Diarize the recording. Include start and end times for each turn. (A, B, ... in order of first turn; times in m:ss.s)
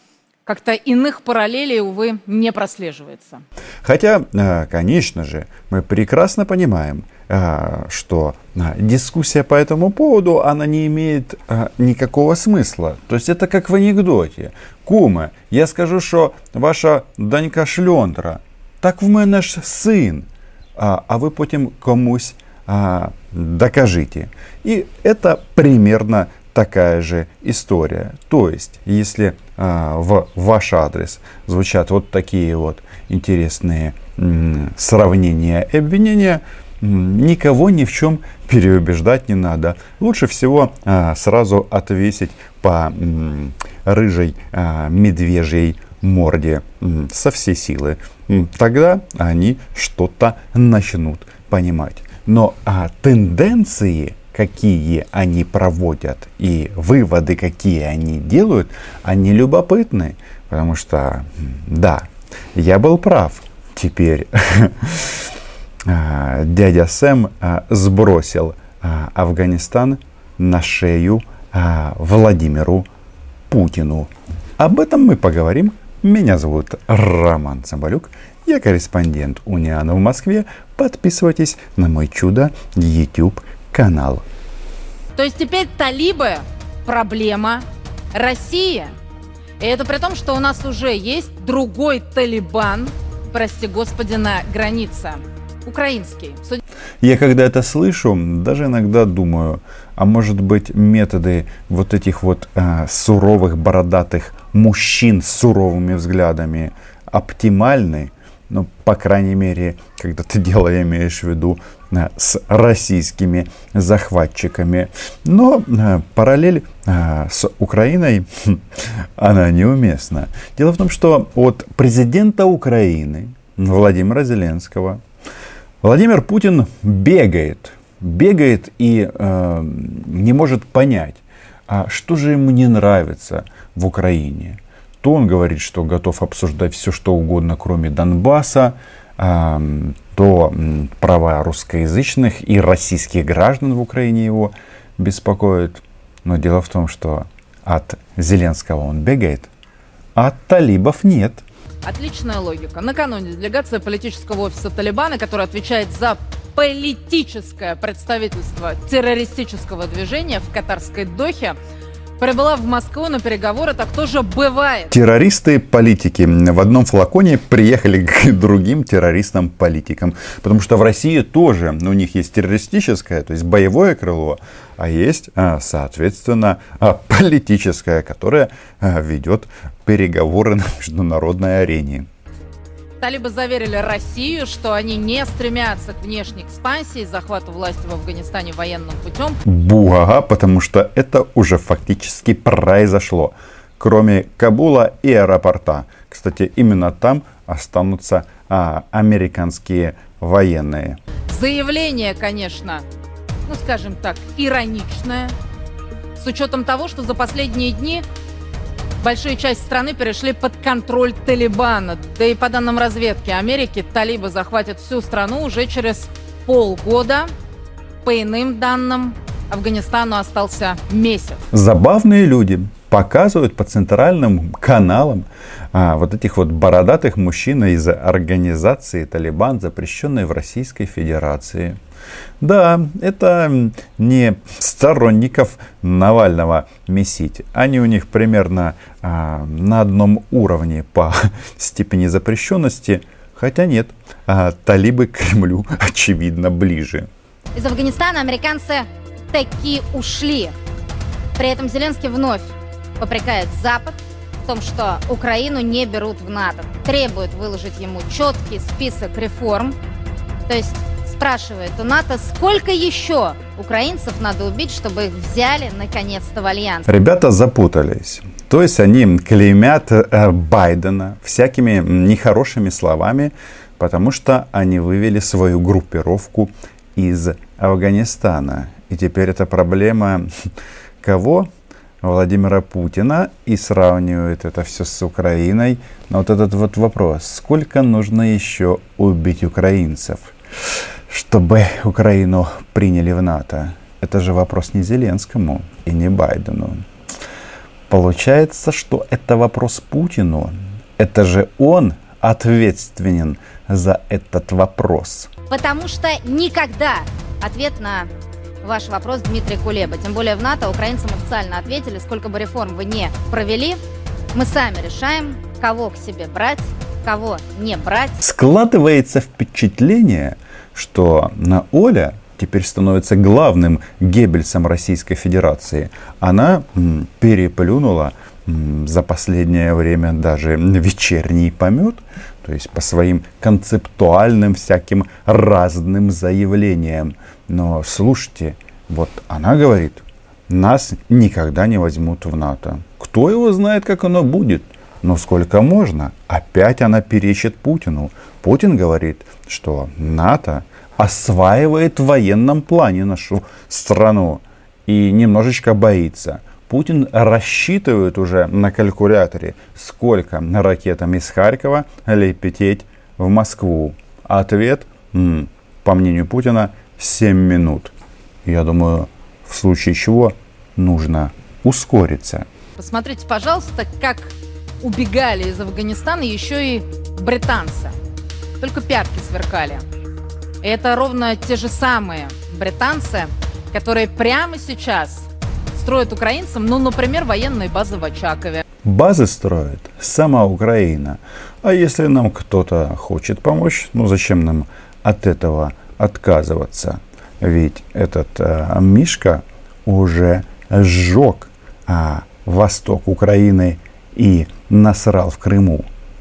0:00.4-0:03.4 A
0:03.8-1:05.3 B
1:05.8-1:12.9 B
1:13.5-1:24.2 B
1:25.2-1:28.9 A
1:29.6-1:36.6 A
1:37.0-2:05.0 B
2:05.8-2:29.5 B
2:30.2-2:31.4 B
2:31.8-2:41.6 A
2:42.2-2:44.9 A
2:44.9-3:02.1 B
3:03.0-3:09.4 A
3:09.4-3:21.0 B
3:21.3-3:22.8 A
3:23.4-3:25.4 A
3:26.2-3:28.0 A
3:29.0-3:37.3 A
3:38.0-3:41.4 A
3:41.5-3:51.8 B
3:52.4-4:07.1 B
4:07.5-4:10.5 C
4:11.4-4:19.8 C
4:20.5-4:26.9 C
4:26.9-4:40.3 B
4:41.0-4:41.5 B
4:42.0-4:50.3 B
4:51.1-4:56.8 B
4:57.9-5:05.3 B
5:05.5-5:08.1 C
5:08.6-5:13.8 C
5:14.3-5:18.2 C
5:18.2-6:07.9 B
6:08.4-6:12.5 B
6:12.8-6:17.9 A
6:18.6-6:19.8 A
6:20.6-6:28.6 A
6:28.8-6:45.9 B